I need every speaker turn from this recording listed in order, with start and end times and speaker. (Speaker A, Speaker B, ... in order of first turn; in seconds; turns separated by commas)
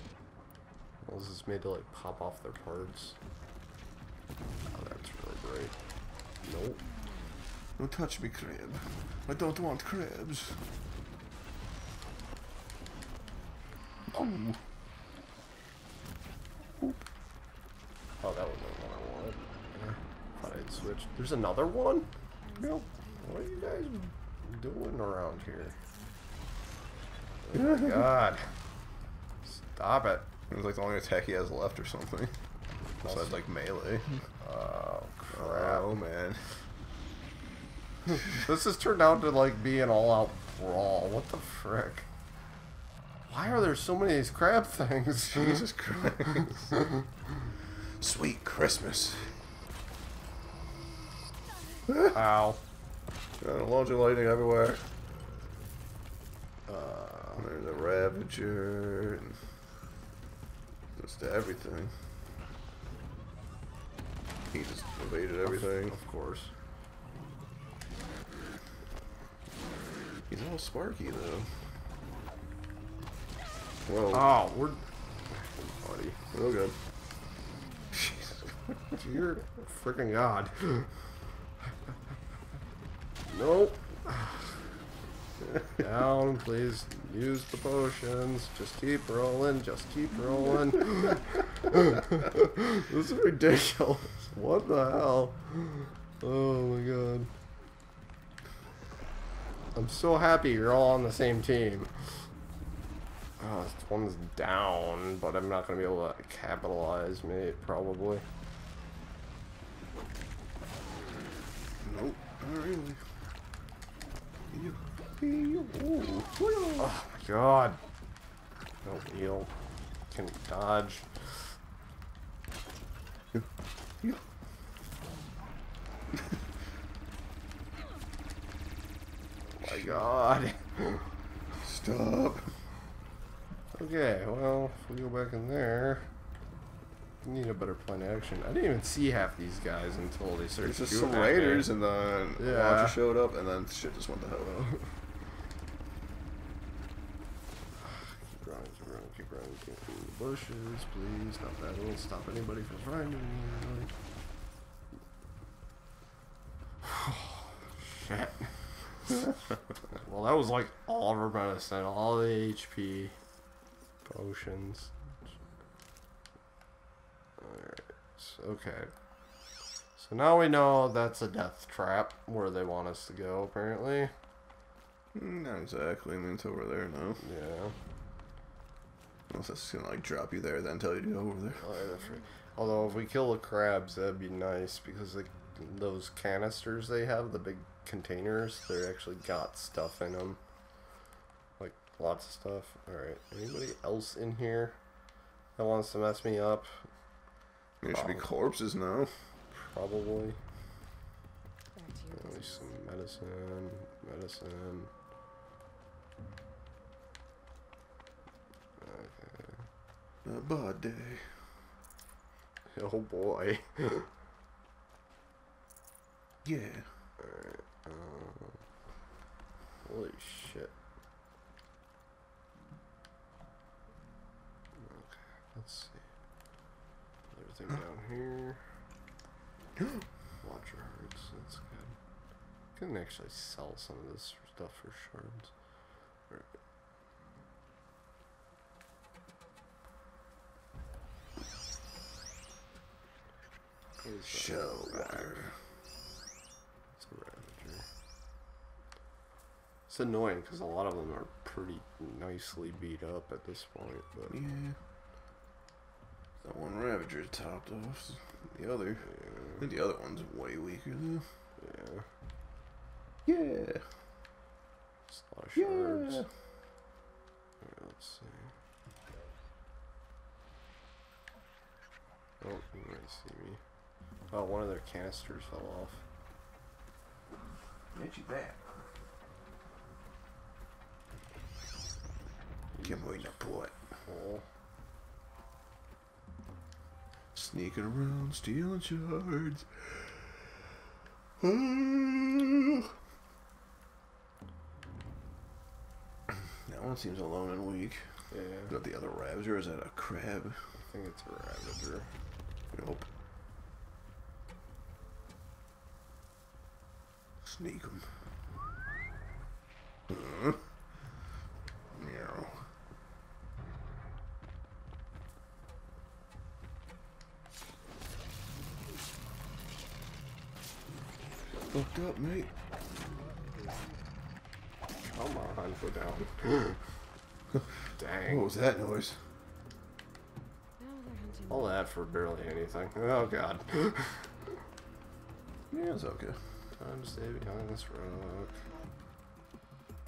Speaker A: 1.0-3.2, Speaker A: 4.7-5.7, Speaker A: 6.4-6.8, Speaker B: 7.8-10.6, Speaker B: 14.1-14.6, Speaker A: 18.2-22.1, Speaker C: 22.6-23.0, Speaker A: 23.2-25.8, Speaker A: 27.5-28.4, Speaker A: 29.4-30.3, Speaker B: 30.5-32.4, Speaker B: 33.0-34.2, Speaker A: 33.0-33.4, Speaker A: 34.4-36.0, Speaker B: 35.3-36.5, Speaker A: 38.1-42.1, Speaker A: 43.3-45.6, Speaker B: 45.3-46.7, Speaker A: 46.4-46.6, Speaker B: 47.8-49.4, Speaker B: 51.9-52.1, Speaker A: 52.1-52.6, Speaker B: 53.4-54.8, Speaker A: 56.7-57.5, Speaker B: 57.4-59.4, Speaker B: 61.0-61.9, Speaker B: 64.5-66.0, Speaker A: 65.4-66.5, Speaker B: 70.3-71.5, Speaker B: 73.8-74.3, Speaker A: 74.1-76.2, Speaker B: 76.3-76.8, Speaker B: 77.9-78.9, Speaker A: 79.0-80.9, Speaker A: 83.3-84.6, Speaker A: 85.7-97.3, Speaker A: 99.7-102.3, Speaker A: 103.4-108.2, Speaker B: 111.8-113.0, Speaker B: 114.5-116.9, Speaker A: 116.8-117.8, Speaker A: 118.8-119.5, Speaker A: 120.1-121.3, Speaker A: 129.5-131.1, Speaker B: 129.6-130.0, Speaker B: 131.6-132.5, Speaker A: 133.7-136.1, Speaker A: 137.2-141.7, Speaker B: 140.6-144.6, Speaker A: 142.4-143.0, Speaker A: 144.4-144.9, Speaker A: 147.8-153.9, Speaker A: 156.8-158.5, Speaker A: 159.9-163.2, Speaker A: 164.1-164.9, Speaker A: 167.4-168.9, Speaker A: 169.9-174.1, Speaker B: 175.1-177.2, Speaker A: 177.2-177.7, Speaker B: 179.3-181.7, Speaker A: 181.6-190.4, Speaker A: 191.6-194.8, Speaker A: 195.6-196.9, Speaker B: 197.8-199.1, Speaker A: 197.9-198.3, Speaker A: 199.5-200.4, Speaker C: 201.7-202.6, Speaker A: 202.1-204.9, Speaker A: 208.8-209.7, Speaker B: 210.2-211.5, Speaker A: 212.7-214.1, Speaker B: 216.4-216.9, Speaker A: 217.2-218.6, Speaker A: 219.8-220.7, Speaker A: 224.8-226.0, Speaker A: 227.3-228.6, Speaker B: 229.8-230.0, Speaker A: 230.4-232.0, Speaker A: 232.8-235.5, Speaker A: 244.0-245.5, Speaker B: 244.3-245.5, Speaker A: 247.0-247.8, Speaker A: 249.9-254.4, Speaker B: 254.3-254.8, Speaker B: 256.4-261.3, Speaker A: 259.0-259.6, Speaker A: 261.6-262.1, Speaker B: 263.2-263.9, Speaker A: 265.1-266.2, Speaker B: 265.6-266.3, Speaker A: 267.6-268.5, Speaker A: 272.4-273.6, Speaker A: 274.3-276.0, Speaker B: 277.9-278.6, Speaker A: 282.8-283.4, Speaker B: 282.8-283.7, Speaker A: 284.1-284.4, Speaker B: 287.3-290.5, Speaker B: 291.4-292.9, Speaker B: 296.6-298.1, Speaker A: 298.3-298.7, Speaker B: 298.7-300.6, Speaker A: 300.7-302.1, Speaker B: 302.7-303.1, Speaker B: 307.4-308.1, Speaker B: 310.1-310.6, Speaker B: 311.9-312.6, Speaker B: 321.7-322.5, Speaker A: 325.1-326.8, Speaker A: 327.9-328.5, Speaker B: 328.2-329.2, Speaker C: 330.8-331.7, Speaker A: 331.5-334.6, Speaker B: 335.7-336.4, Speaker A: 336.8-338.7